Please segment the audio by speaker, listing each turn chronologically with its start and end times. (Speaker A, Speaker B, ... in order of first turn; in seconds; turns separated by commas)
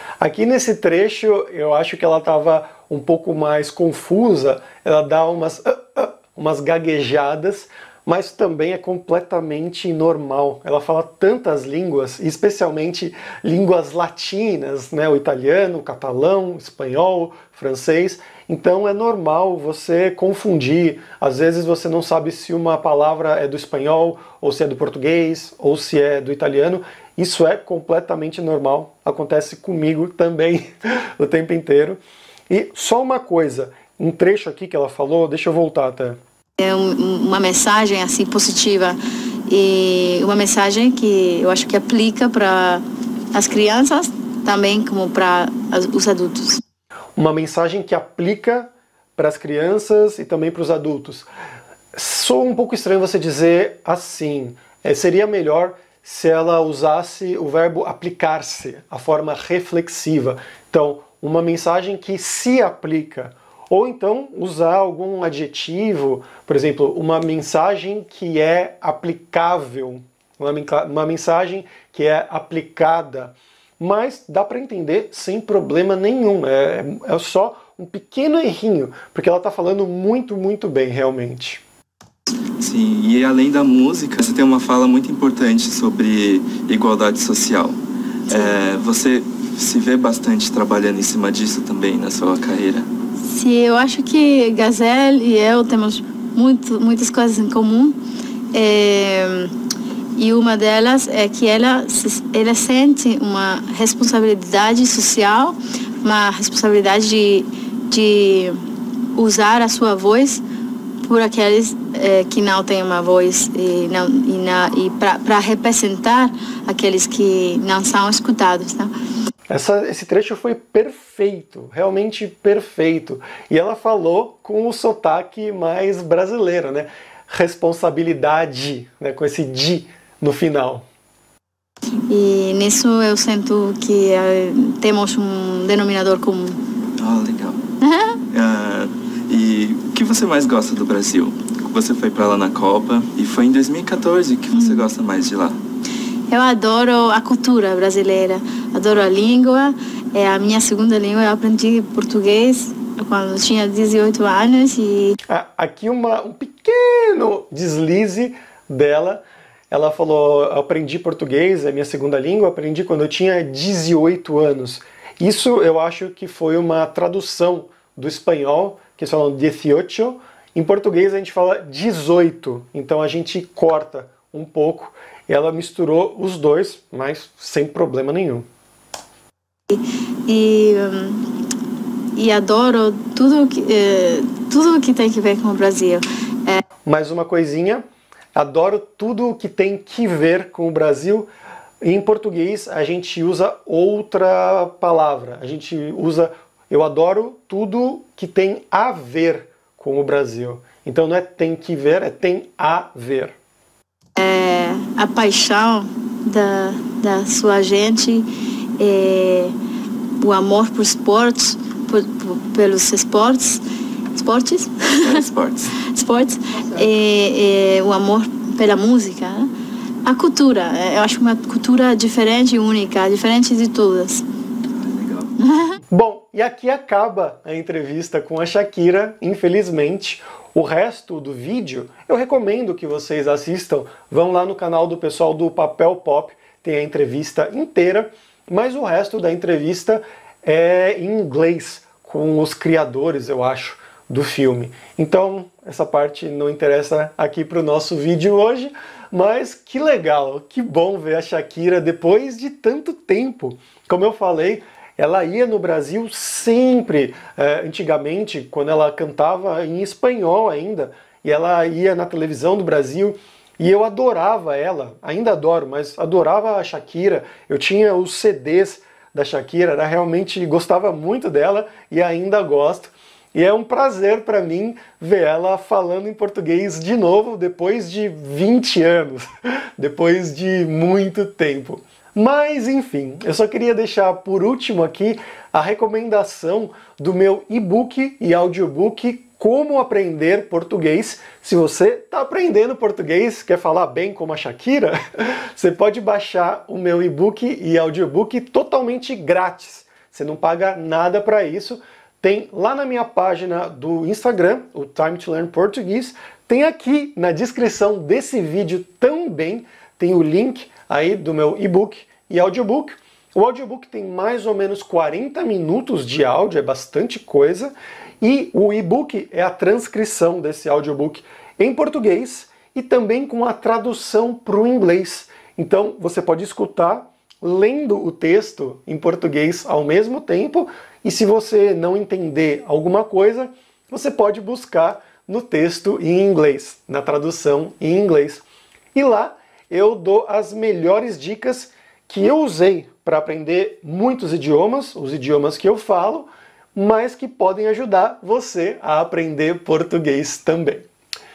Speaker A: 0.2-36.2, Speaker B: 36.6-46.6, Speaker A: 47.2-51.3, Speaker A: 51.9-81.6, Speaker C: 82.6-87.8, Speaker C: 88.3-92.9, Speaker B: 88.3-88.5, Speaker B: 93.3-98.0, Speaker B: 98.5-99.5, Speaker B: 100.2-108.6, Speaker B: 109.1-110.4, Speaker B: 111.0-118.9, Speaker A: 119.5-130.8, Speaker B: 132.1-136.6, Speaker C: 137.0-137.6, Speaker B: 137.8-138.2, Speaker C: 138.3-145.6, Speaker B: 144.5-144.9, Speaker B: 146.3-155.2, Speaker A: 155.3-178.4, Speaker B: 179.7-181.3, Speaker B: 182.2-186.6, Speaker A: 186.8-187.8, Speaker A: 188.3-191.3, Speaker A: 191.8-203.3, Speaker B: 204.2-208.3, Speaker B: 208.8-209.5, Speaker B: 210.2-215.2, Speaker C: 215.0-215.7, Speaker B: 215.8-219.5, Speaker B: 220.0-224.2, Speaker C: 224.7-225.3, Speaker B: 225.4-225.8, Speaker A: 225.9-338.4, Speaker A: 338.9-350.9